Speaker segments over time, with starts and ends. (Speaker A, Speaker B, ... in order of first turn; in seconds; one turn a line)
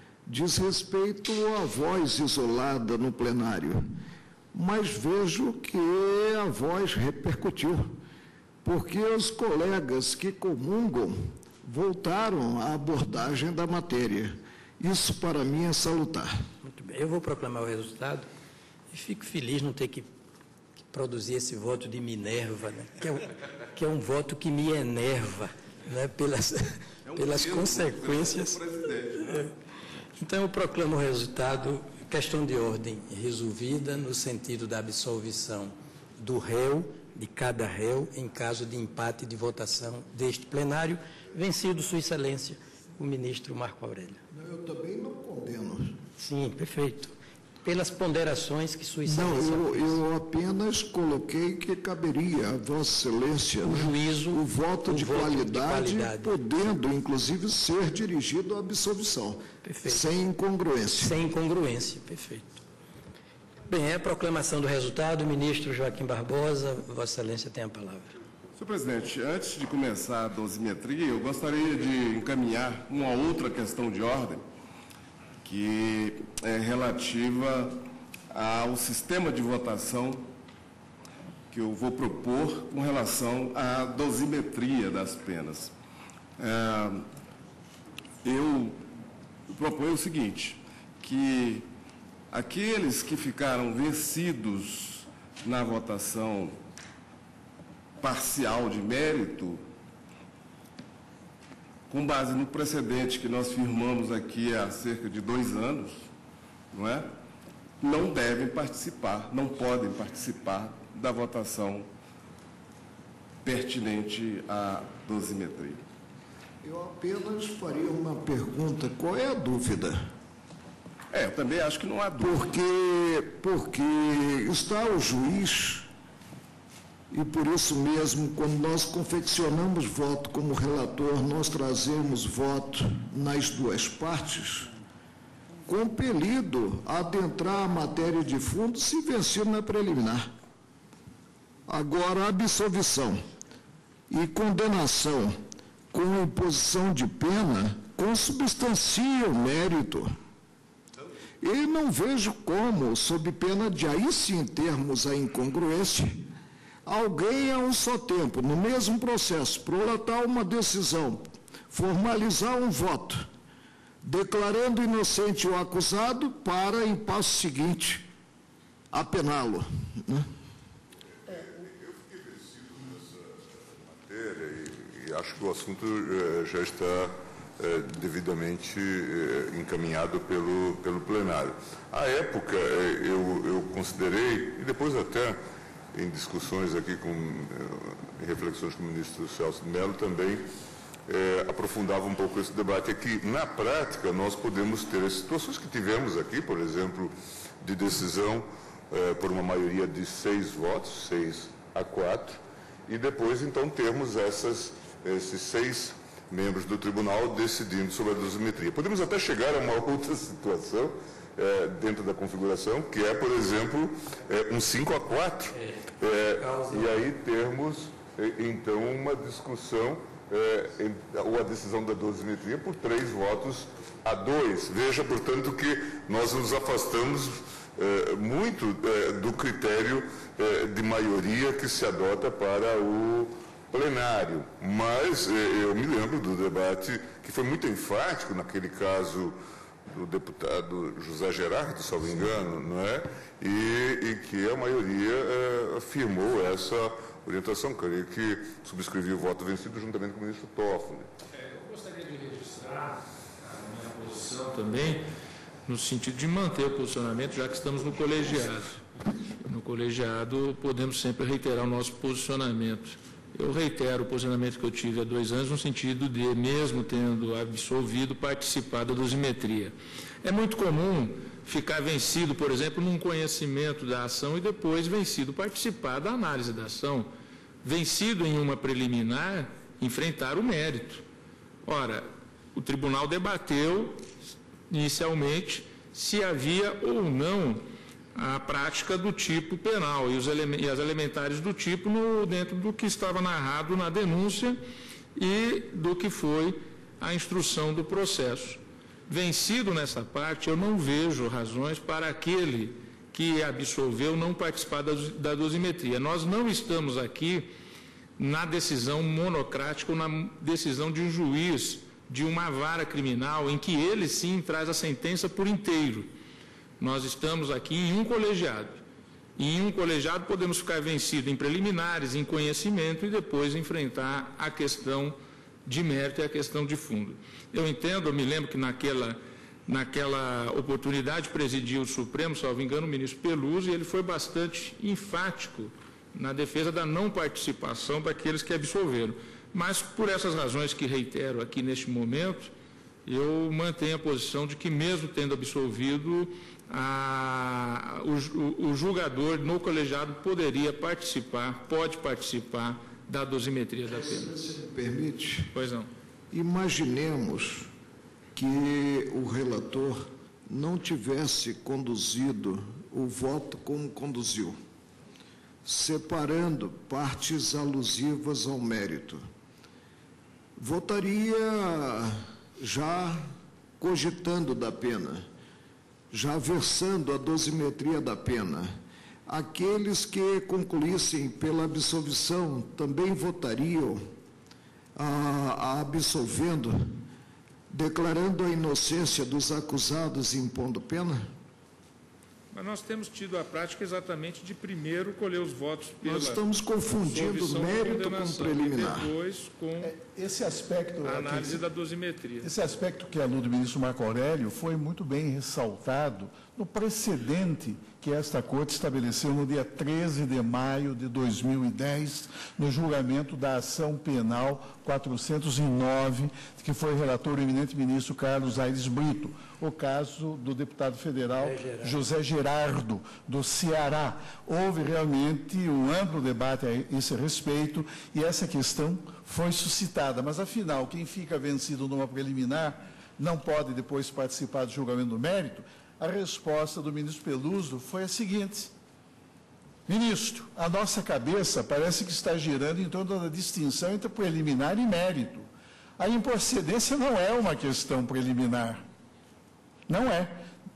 Speaker A: 0.3-3.9
Speaker A: 4.5-7.9
Speaker A: 8.6-16.3
Speaker B: 16.6-18.3
Speaker B: 18.9-20.1
Speaker B: 20.9-28.6
Speaker C: 27.1-29.5
Speaker B: 30.2-44.2
Speaker A: 44.3-46.0
Speaker B: 46.2-50.0
Speaker A: 49.1-61.1
Speaker B: 53.6-56.5
Speaker B: 59.6-60.1
Speaker B: 61.0-62.6
Speaker B: 63.7-68.1
Speaker C: 68.5-74.5
Speaker C: 75.4-77.8
Speaker C: 78.3-80.3
Speaker C: 81.5-85.7
Speaker C: 86.4-87.1
Speaker C: 88.2-88.8
Speaker C: 89.5-91.7
Speaker C: 92.3-96.6
Speaker C: 98.0-99.7
Speaker C: 101.9-106.1
Speaker C: 106.7-107.1
Speaker C: 107.8-111.9
Speaker C: 113.4-115.8
Speaker A: 116.6-120.1
Speaker C: 121.1-122.6
Speaker A: 122.2-125.9
Speaker A: 127.1-134.7
Speaker A: 135.7-140.3
Speaker A: 141.7-143.3
Speaker A: 144.1-145.4
Speaker A: 145.9-150.2
Speaker A: 151.4-156.2
Speaker A: 156.8-163.3
Speaker A: 164.0-168.1
Speaker A: 168.9-170.3
Speaker D: 171.3-185.4
Speaker D: 185.9-190.5
Speaker D: 191.1-239.4
Speaker B: 215.5-217.1
Speaker D: 239.9-251.1
Speaker E: 251.4-255.1
Speaker E: 255.7-277.1
Speaker E: 277.6-281.0
Speaker E: 281.6-284.0
Speaker E: 284.7-287.6
Speaker E: 288.1-294.6
Speaker E: 295.2-307.5
Speaker E: 308.2-316.1
Speaker E: 316.8-318.8
Speaker E: 319.4-342.5
Speaker E: 343.1-354.4
Speaker A: 353.9-355.5
Speaker E: 355.5-355.9
Speaker A: 356.3-357.7
Speaker A: 358.4-364.6
Speaker A: 365.6-369.2
Speaker A: 370.6-375.3
Speaker A: 376.1-378.8
Speaker A: 379.3-384.0
Speaker A: 385.0-387.0
Speaker A: 387.7-391.2
Speaker E: 392.5-396.4
Speaker A: 396.0-399.1
Speaker E: 396.9-399.9
Speaker F: 399.8-401.7
Speaker E: 401.0-402.6
Speaker F: 402.4-438.7
Speaker B: 421.4-422.0
Speaker F: 439.9-445.5
Speaker F: 446.0-448.8
Speaker F: 449.9-450.4